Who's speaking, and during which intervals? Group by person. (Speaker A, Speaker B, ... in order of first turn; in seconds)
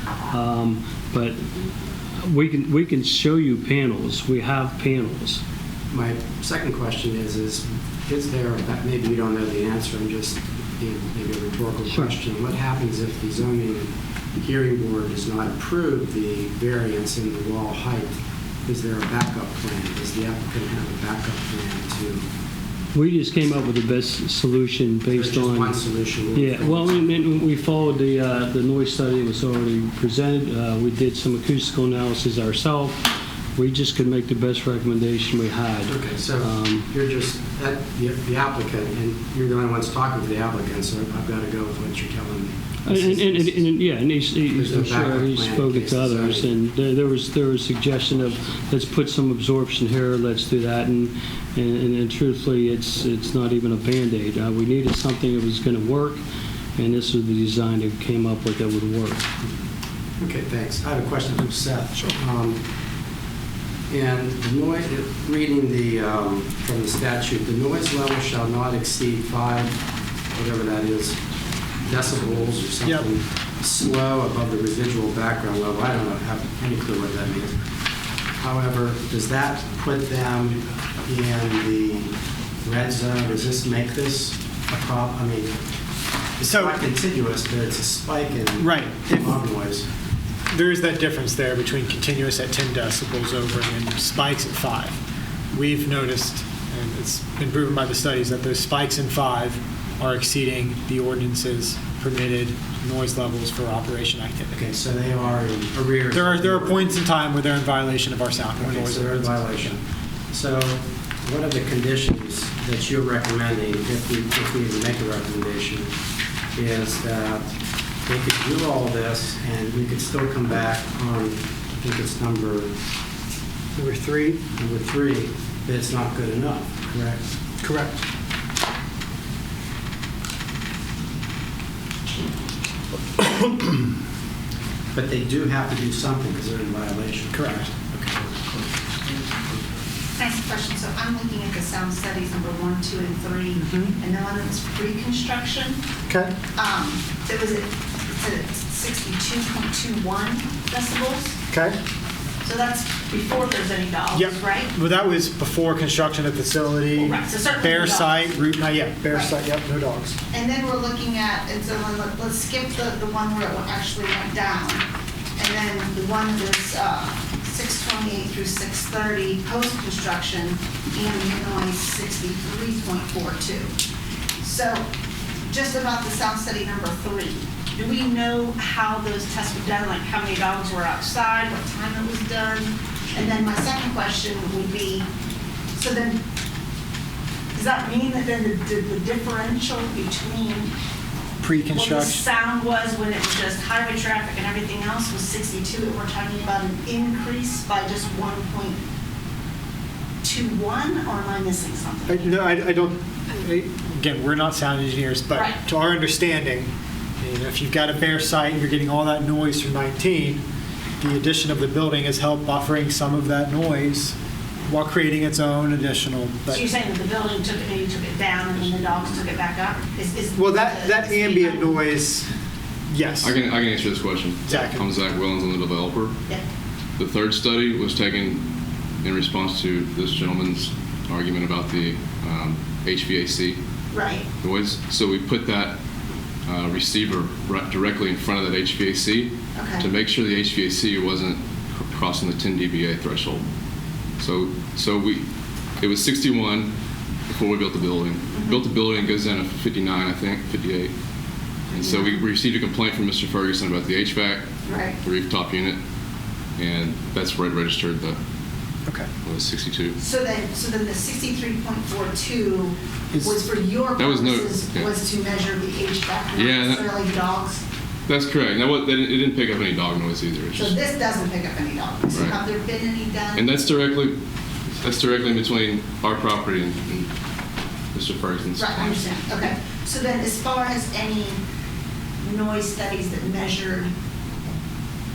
Speaker A: 0.3-1.5, 2.2-5.4, 11.9-12.1, 22.9-25.8, 26.3-36.9, 42.9-56.2, 56.8-59.3
Speaker B: 5.9-18.1, 18.7-22.2, 25.1-27.1, 35.9-43.7, 44.5-46.5, 60.2-62.6, 63.9-69.8, 70.3-71.2, 71.8-77.5, 78.4-85.6, 86.4-89.9, 104.5-107.0, 108.6-115.9, 116.6-117.5, 118.0-122.7, 124.6-127.2, 134.9-138.4
Speaker C: 86.4-86.8, 88.6-89.4, 90.5-95.0, 95.5-104.6, 106.1-109.7, 123.8-124.4, 127.6-128.0, 137.3-137.7, 143.6-143.9, 146.1-146.4, 151.5-151.8, 154.1-160.2, 191.4-192.2, 202.1-210.4, 211.0-214.2, 214.7-216.7, 220.3-222.3, 222.9-223.3, 224.5-224.9, 263.1-263.4
Speaker D: 140.1-145.8, 146.6-151.4, 152.4-154.7, 157.0-158.2, 159.1-159.3, 160.3-173.7, 174.4-174.8, 175.5-185.1, 185.8-186.2, 187.5-190.7, 191.7-198.8, 200.2-202.4, 205.3-205.6, 216.5-221.8, 233.9-234.3, 239.5-239.9, 248.3-248.6, 251.7-252.3, 254.7-255.0, 260.0-267.6, 270.6-273.6, 278.6-281.4, 282.2-283.9
Speaker E: 223.2-226.2, 227.0-228.5, 229.0-233.6, 234.4-235.8, 236.5-243.5, 244.2-245.3, 245.8-246.8, 247.3-250.9, 251.7-254.5, 255.0-255.8, 256.6-258.2, 259.2-260.0, 264.0-264.9, 266.4-266.9, 268.1-270.8, 272.1-272.4, 273.4-274.2, 274.8-277.1, 277.9-279.0